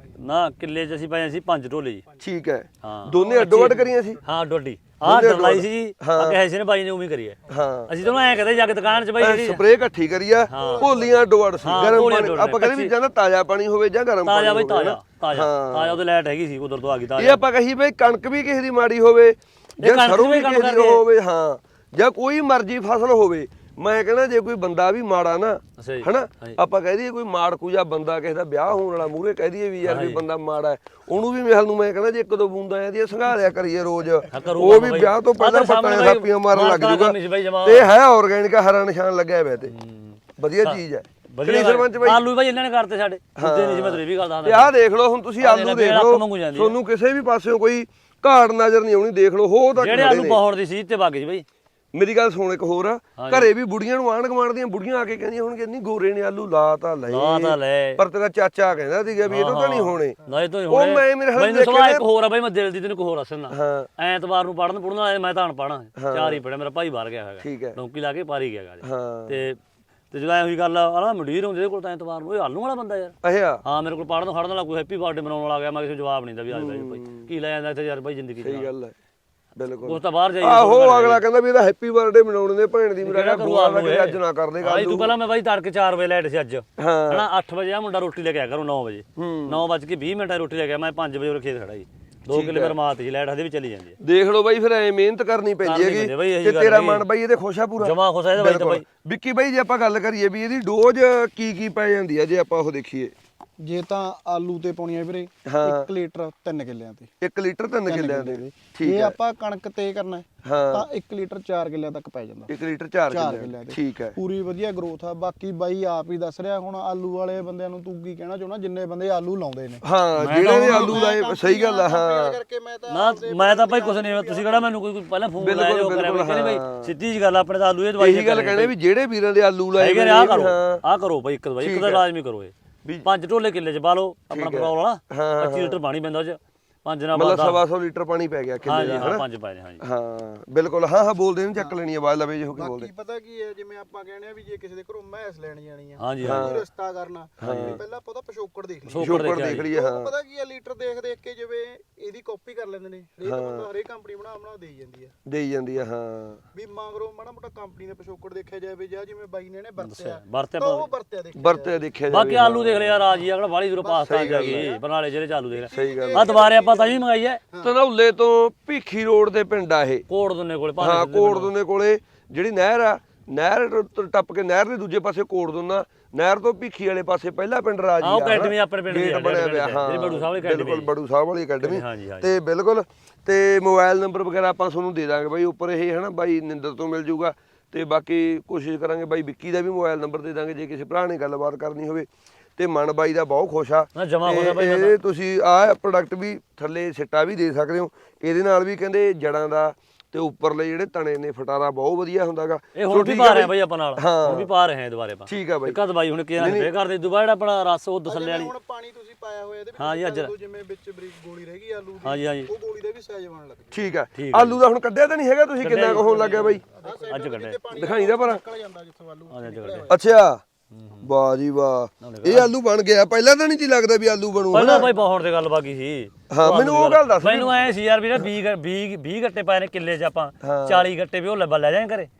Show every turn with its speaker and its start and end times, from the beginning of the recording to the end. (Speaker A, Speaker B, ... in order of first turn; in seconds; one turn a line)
Speaker A: 0.1-2.0
Speaker B: 2.2-4.2
Speaker A: 2.8-7.4
Speaker C: 3.4-4.2
Speaker B: 5.0-6.4
Speaker B: 7.5-7.9
Speaker A: 7.9-9.6
Speaker C: 8.0-8.9
Speaker B: 9.2-16.0
Speaker A: 10.5-10.9
Speaker C: 10.5-11.9
Speaker A: 11.6-12.9
Speaker A: 14.2-17.4
Speaker B: 17.2-39.7
Speaker A: 19.8-21.0
Speaker A: 25.8-26.6
Speaker A: 29.8-30.2
Speaker A: 34.3-37.9
Speaker A: 39.7-44.7
Speaker B: 40.4-42.2
Speaker B: 43.4-50.4
Speaker A: 45.4-46.8
Speaker A: 49.8-51.5
Speaker B: 51.9-60.2
Speaker A: 53.2-53.5
Speaker A: 57.1-58.0
Speaker A: 59.2-69.6
Speaker B: 60.7-62.0
Speaker B: 63.5-63.9
Speaker B: 66.0-66.4
Speaker B: 67.4-67.8
Speaker B: 68.8-69.4
Speaker A: 70.1-78.7
Speaker B: 73.2-73.6
Speaker B: 76.5-77.3
Speaker B: 78.4-78.9
Speaker B: 79.5-85.1
Speaker A: 79.8-81.2
Speaker A: 83.0-94.0
Speaker B: 86.8-87.2
Speaker B: 89.2-89.6
Speaker B: 92.3-92.8
Speaker B: 94.0-103.1
Speaker A: 95.6-97.0
Speaker A: 97.8-98.8
Speaker C: 103.6-107.1
Speaker B: 105.5-105.9
Speaker B: 107.2-109.2
Speaker C: 107.9-112.5
Speaker B: 110.4-110.9
Speaker B: 112.5-114.2
Speaker C: 113.1-119.8
Speaker B: 119.8-122.4
Speaker A: 120.2-121.0
Speaker C: 120.4-124.7
Speaker A: 122.9-128.7
Speaker B: 125.4-126.9
Speaker B: 128.0-130.8
Speaker A: 129.8-137.6
Speaker B: 131.6-132.0
Speaker B: 134.3-135.8
Speaker B: 137.1-139.2
Speaker A: 138.6-139.8
Speaker B: 139.8-142.9
Speaker C: 142.5-155.1
Speaker A: 146.0-146.5
Speaker B: 146.2-146.7
Speaker A: 147.4-147.8
Speaker B: 147.4-147.8
Speaker A: 148.9-149.7
Speaker B: 149.0-150.1
Speaker B: 153.2-153.7
Speaker B: 155.2-156.4
Speaker C: 156.5-161.8
Speaker A: 159.8-160.9
Speaker B: 161.3-163.0
Speaker A: 162.1-167.4
Speaker C: 163.8-164.8
Speaker B: 163.9-164.8
Speaker C: 165.5-167.7
Speaker B: 165.7-166.3
Speaker B: 167.6-170.1
Speaker A: 170.1-171.5
Speaker B: 170.8-204.5
Speaker A: 178.0-180.9
Speaker A: 181.6-182.3
Speaker A: 193.9-194.9
Speaker A: 202.7-208.5
Speaker B: 205.3-205.8
Speaker B: 206.4-206.7
Speaker C: 208.1-213.8
Speaker A: 209.8-210.3
Speaker A: 212.0-212.5
Speaker B: 213.7-216.6
Speaker A: 214.1-214.6
Speaker A: 215.6-217.6
Speaker C: 215.9-219.9
Speaker B: 217.7-218.4
Speaker A: 219.3-219.9
Speaker B: 219.9-220.4
Speaker A: 220.7-221.0
Speaker B: 221.0-224.9
Speaker A: 222.0-222.5
Speaker A: 224.5-232.1
Speaker B: 226.3-227.7
Speaker B: 230.4-230.9